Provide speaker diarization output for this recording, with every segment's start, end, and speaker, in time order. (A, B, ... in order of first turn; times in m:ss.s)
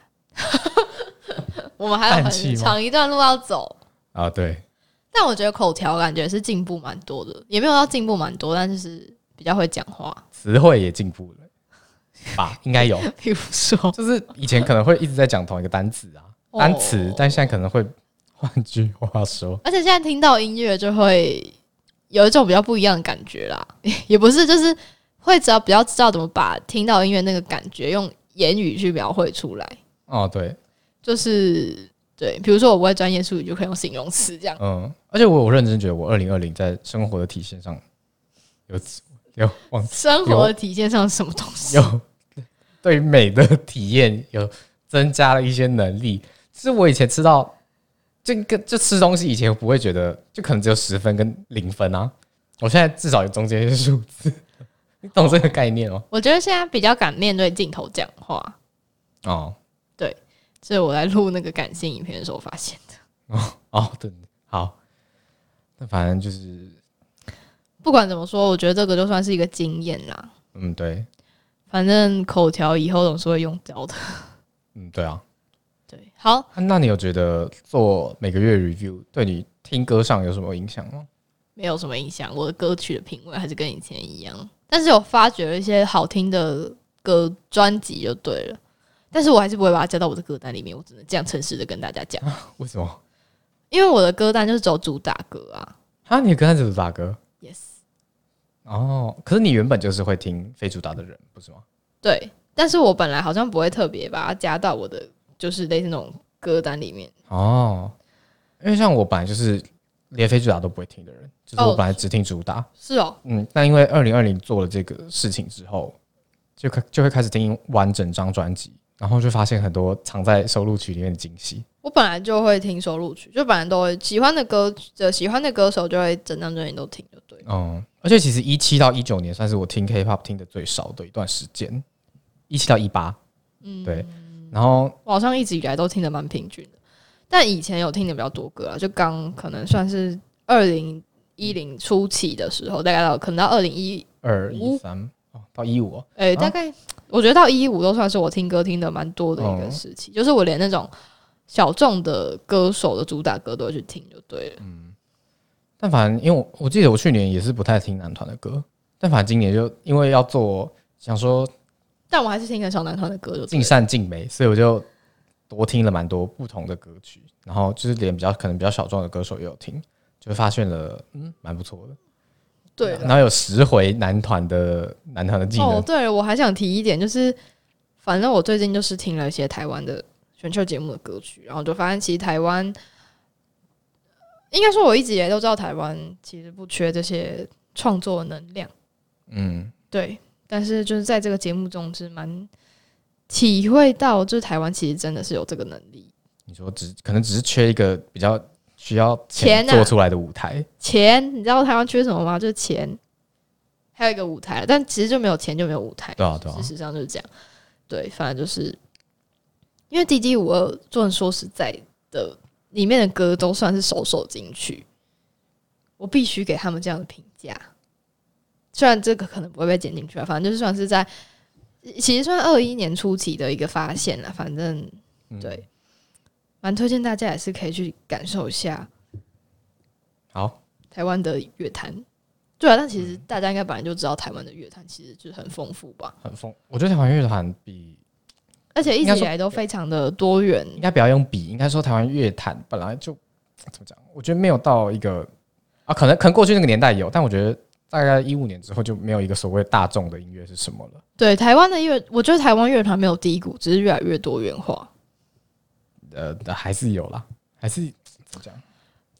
0:00.4-0:03.8 A
0:02.1-0:02.8 B
0:04.1-0:04.6 B
0:05.1-0:10.2 A
0:10.4-0:11.5 B
0:12.4-0:13.1 B
0:12.8-0:14.0 A
0:13.9-0:19.6 B
0:16.5-0:17.5 A
0:19.6-0:21.5 A
0:22.1-0:29.8 A
0:30.1-0:30.6 B
0:31.0-0:34.6 A
0:34.6-0:37.8 B
0:38.7-0:40.5 B
0:39.8-0:41.9 A
0:41.7-0:47.5 B
0:48.2-0:54.5 B
0:55.0-0:56.0 B
0:56.1-0:58.6 A
0:59.2-0:59.6 B
1:00.0-1:03.0 A
1:03.3-1:04.8 B
1:05.8-1:06.8 B
1:07.8-1:10.3 A
1:10.5-1:11.1 B
1:11.7-1:14.3 A
1:14.7-1:15.2 B
1:15.9-1:16.5 A
1:16.5-1:21.1 B
1:21.6-1:28.6 A
1:29.1-1:32.2 A
1:32.2-1:33.0 B
1:33.7-1:35.7 A
1:36.1-1:37.2 B
1:37.4-1:37.7 A
1:38.6-1:41.6 B
1:42.0-1:47.1 A
1:47.3-1:47.9 B
1:48.6-1:52.7 B
1:51.6-1:52.0 A
1:52.8-1:53.2 A
1:53.2-1:55.9 B
1:56.6-2:01.6 B
2:01.8-2:07.4 A
2:07.4-2:11.8 B
2:12.5-2:13.2 B
2:13.6-2:14.5 A
2:13.8-2:15.0 B
2:15.0-2:16.7 A
2:17.3-2:24.8 A
2:24.2-2:26.5 B
2:26.2-2:30.9 A
2:29.4-2:29.8 B
2:31.5-2:34.6 A
2:34.6-2:34.9 B
2:35.8-2:41.5 B
2:42.1-2:43.8 A
2:43.5-2:44.8 B
2:45.5-2:52.0 B
2:52.8-2:53.2 A
2:52.8-2:55.9 B
2:55.6-2:57.4 A
2:58.0-3:02.8 A
3:04.5-3:08.7 A
3:09.3-3:09.7 B
3:09.9-3:12.5 A
3:13.3-3:16.1 A
3:16.5-3:20.6 B
3:19.4-3:19.9 A
3:20.8-3:23.0 A
3:24.0-3:27.3 A
3:26.2-3:26.7 B
3:27.9-3:28.8 A
3:29.9-3:34.8 A
3:36.0-3:37.7 A
3:38.7-3:41.1 A
3:41.8-3:45.6 A
3:45.3-3:45.6 B
3:46.6-3:48.9 A
3:50.9-3:52.0 A
3:52.6-3:56.1 A
3:53.0-3:53.2 B
3:56.2-3:58.0 B
3:58.7-4:00.8 A
3:59.0-3:59.6 B
4:00.8-4:05.3 B
4:05.9-4:11.0 B
4:11.2-4:14.9 A
4:16.1-4:18.6 B